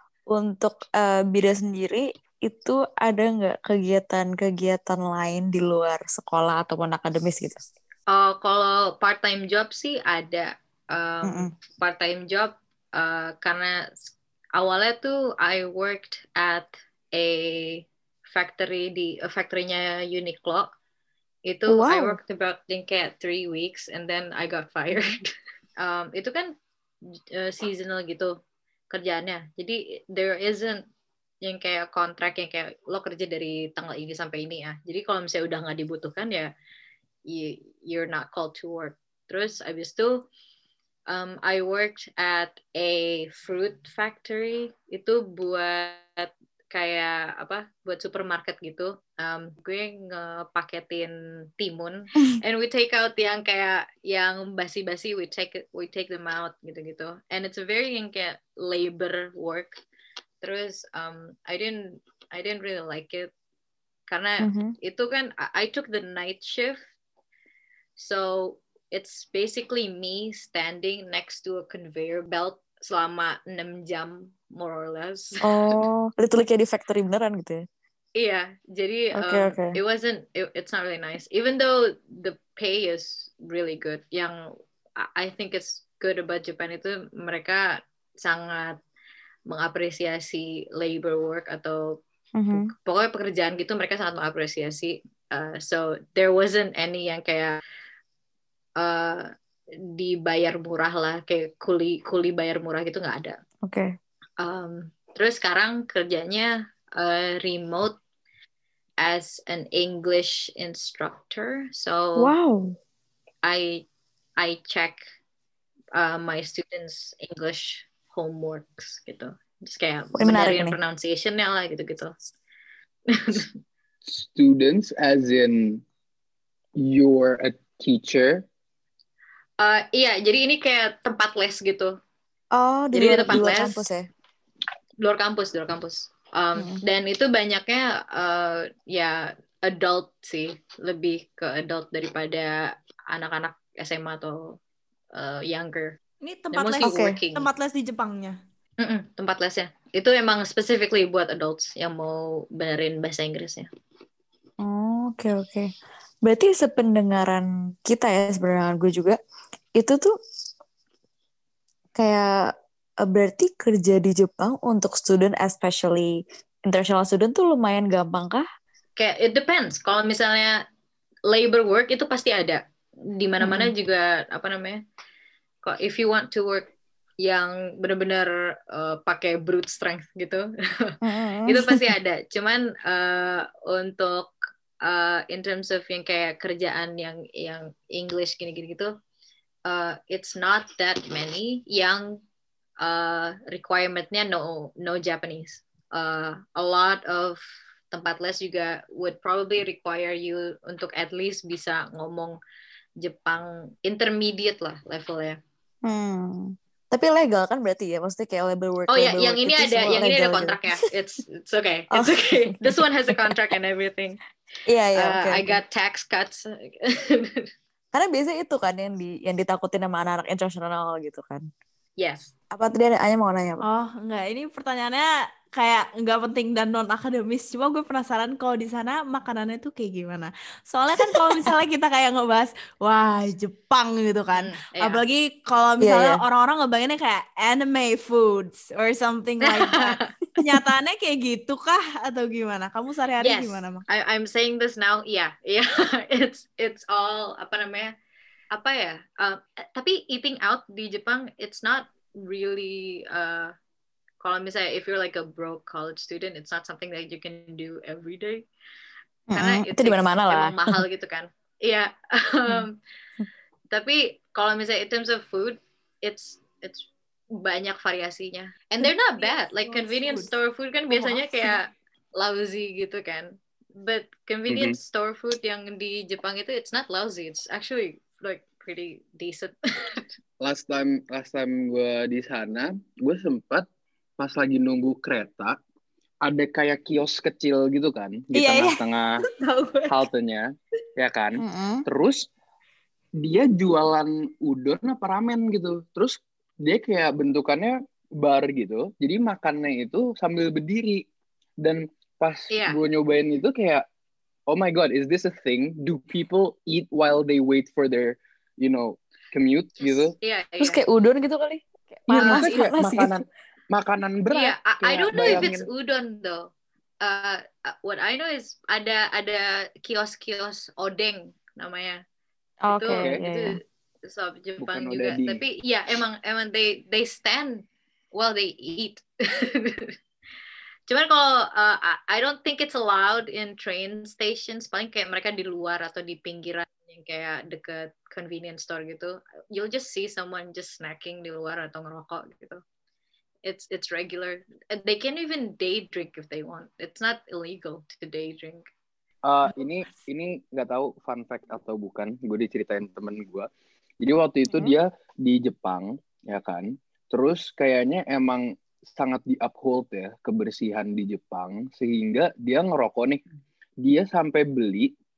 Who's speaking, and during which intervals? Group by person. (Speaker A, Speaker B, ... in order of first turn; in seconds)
Speaker A: 0.3-7.6, 11.2-11.5, 21.7-22.2, 64.4-64.7, 75.4-77.6, 79.2-79.8, 92.4-92.7, 103.6-103.9, 112.2-112.8, 120.2-120.8, 132.5-134.1, 136.6-136.8, 146.8-147.2, 154.6-155.7, 156.2-159.2, 159.8-160.1, 161.9-162.3, 163.0-168.4, 173.4-173.7, 181.0-181.9, 205.8-210.6, 211.9-212.8, 214.7-215.6, 217.9-221.4, 222.5-223.6, 235.8-236.2, 259.3-260.8, 291.4-291.9, 310.6-313.2, 315.1-315.5, 322.6-323.5
Speaker B: 8.1-20.7, 21.4-26.5, 27.3-28.3, 28.9-30.8, 31.4-36.5, 37.3-40.2, 41.1-59.8, 60.4-63.3, 64.1-66.8, 68.0-75.7, 78.2-84.4, 85.0-88.8, 89.5-92.0, 92.5-97.5, 98.8-99.3, 100.0-103.4, 104.4-108.0, 109.0-112.3, 113.4-113.9, 114.4-115.0, 116.0-122.1, 123.1-123.5, 129.6-131.9, 132.9-133.8, 135.0-144.6, 145.1-146.0, 146.5-147.5, 148.8-153.7, 169.0-170.6, 171.3-172.6, 173.2-174.8, 175.6-176.7, 177.2-180.9, 181.5-184.3, 184.8-188.9, 189.7-192.2, 192.8-197.4, 197.9-202.4, 203.0-205.4, 208.9-214.2, 214.9-217.5, 222.0-222.3, 234.3-235.0, 239.4-240.1, 243.2-247.9, 248.5-253.5, 254.2-258.4, 259.3-262.8, 263.7-280.0, 302.5-302.8, 309.8-310.8, 312.1-312.7, 314.3-316.5, 317.0-322.0, 322.7-329.9, 330.9-342.6, 343.4-348.6
Speaker C: 124.0-125.8, 126.8-128.4, 274.5-274.8, 280.4-283.6, 284.2-285.6, 286.2-289.2, 289.9-292.2, 293.2-301.1, 301.6-303.9, 304.5-310.1, 312.2-315.7, 322.9-323.2, 324.6-325.4, 349.2-353.5, 354.0-363.2, 363.8-364.9
Speaker D: 146.2-148.4, 223.6-243.9, 268.8-270.4, 270.9-271.6, 288.3-290.1